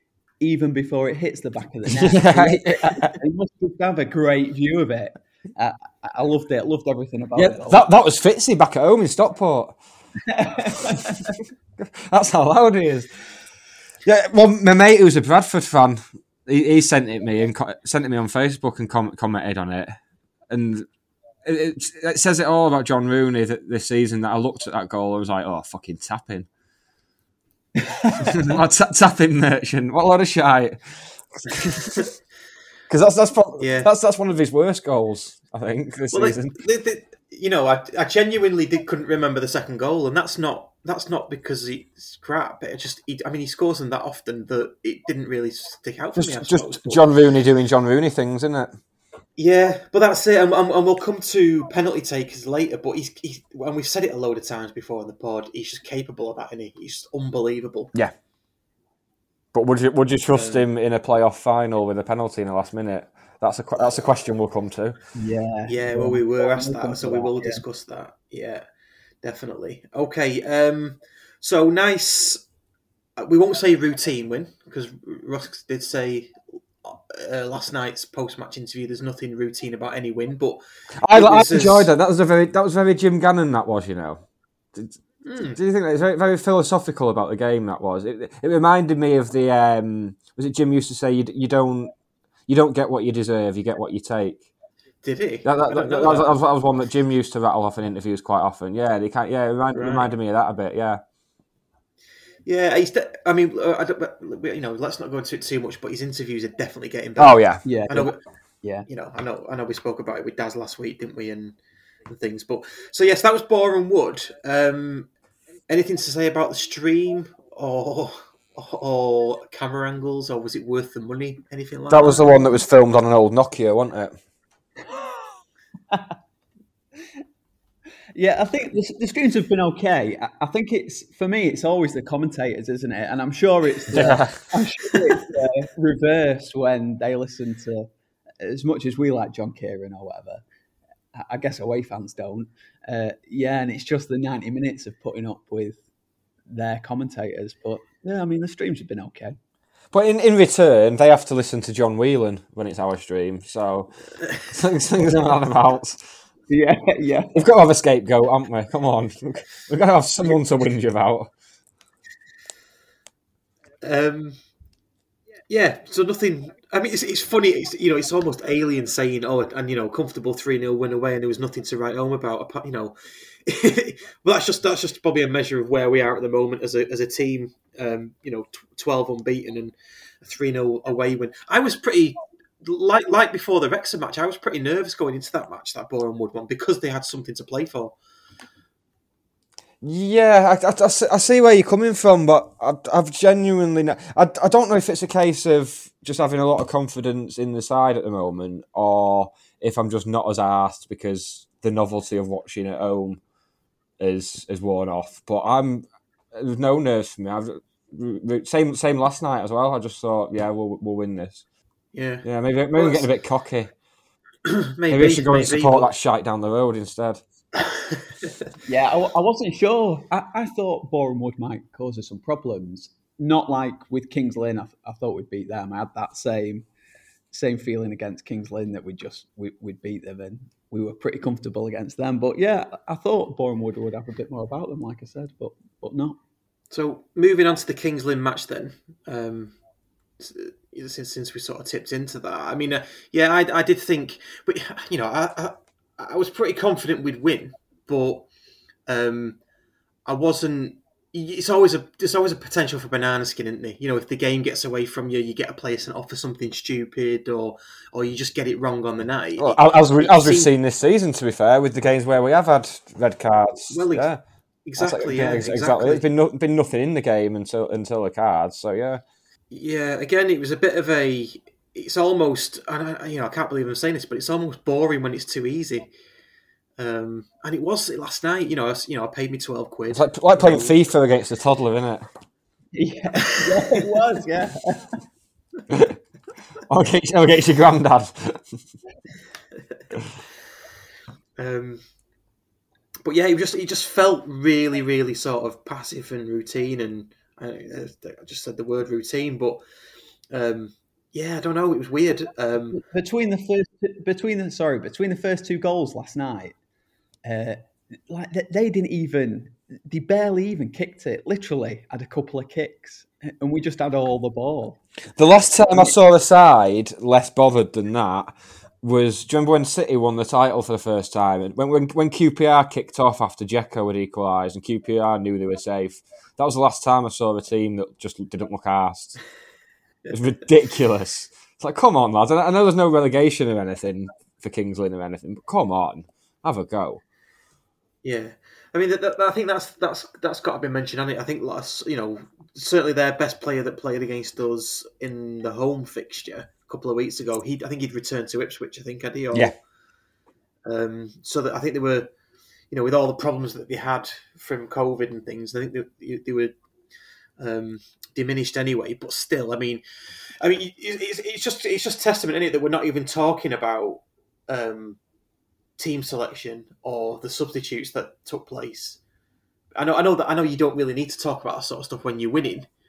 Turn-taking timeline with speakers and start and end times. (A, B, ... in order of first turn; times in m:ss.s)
0:00.4-0:07.8 A
0:01.9-0:03.2 B
0:07.4-0:09.8 B
0:10.3-0:11.3 A
0:11.8-0:13.1 B
0:14.0-0:20.0 B
0:20.5-0:20.9 B
0:21.4-0:26.5 B
0:27.8-0:28.3 A
0:28.2-0:32.0 B
0:32.9-0:36.6 B
0:33.6-0:33.9 C
0:36.1-0:47.0 C
0:46.2-0:48.7 B
0:49.4-0:57.9 C
0:59.5-1:05.0 B
1:00.3-1:00.6 C
1:05.2-1:07.6 A
1:05.7-1:08.6 C
1:09.2-1:12.4 C
1:13.2-1:21.9 C
1:21.0-1:24.2 B
1:25.2-1:25.6 C
1:25.5-1:31.9 B
1:32.5-1:34.4 B
1:35.0-1:36.4 C
1:35.4-1:41.0 B
1:39.7-1:40.1 C
1:42.5-1:48.2 C
1:47.2-1:47.6 B
1:47.6-1:48.9 A
1:48.9-1:51.6 C
1:52.1-1:55.1 C
1:55.7-2:02.4 C
2:01.9-2:04.2 B
2:08.2-2:17.9 A
2:13.9-2:14.4 B
2:18.4-2:20.4 A
2:21.1-2:25.8 A
2:26.5-2:29.4 A
2:29.9-2:36.0 B
2:36.5-2:37.3 A
2:37.3-2:41.3 B
2:43.8-2:44.4 C
2:45.5-3:08.0 C
3:09.8-3:23.2 B
3:24.0-3:31.4 B
3:31.9-3:33.1 C
3:32.2-3:33.7 B
3:34.5-3:35.9 C
3:34.9-3:37.2 B
3:37.6-3:38.3 C
3:38.7-3:46.7 A
3:47.3-3:56.2 A
3:56.7-3:59.6 C
4:00.2-4:08.3 C
4:08.9-4:09.4 C
4:10.1-4:20.5 C
4:19.4-4:24.2 B
4:23.7-4:24.1 C
4:24.7-4:26.0 C
4:24.8-4:29.0 B
4:29.5-4:35.9 C
4:36.8-4:40.8 C
4:39.9-4:42.1 B
4:42.8-4:44.9 A
4:45.7-4:46.0 B
4:46.7-4:48.5 B
4:51.4-4:51.8 C
4:53.0-4:59.6 C
5:00.3-5:02.8 C
5:02.7-5:06.6 A
5:07.2-5:14.8 A
5:15.2-5:29.2 B
5:30.1-5:37.0 B
5:38.0-5:49.5 C
5:50.6-5:52.1 C
5:52.7-5:56.6 C
5:57.4-5:59.8 C
6:00.4-6:05.0 C
6:05.8-6:09.0 C
6:09.8-6:12.7 C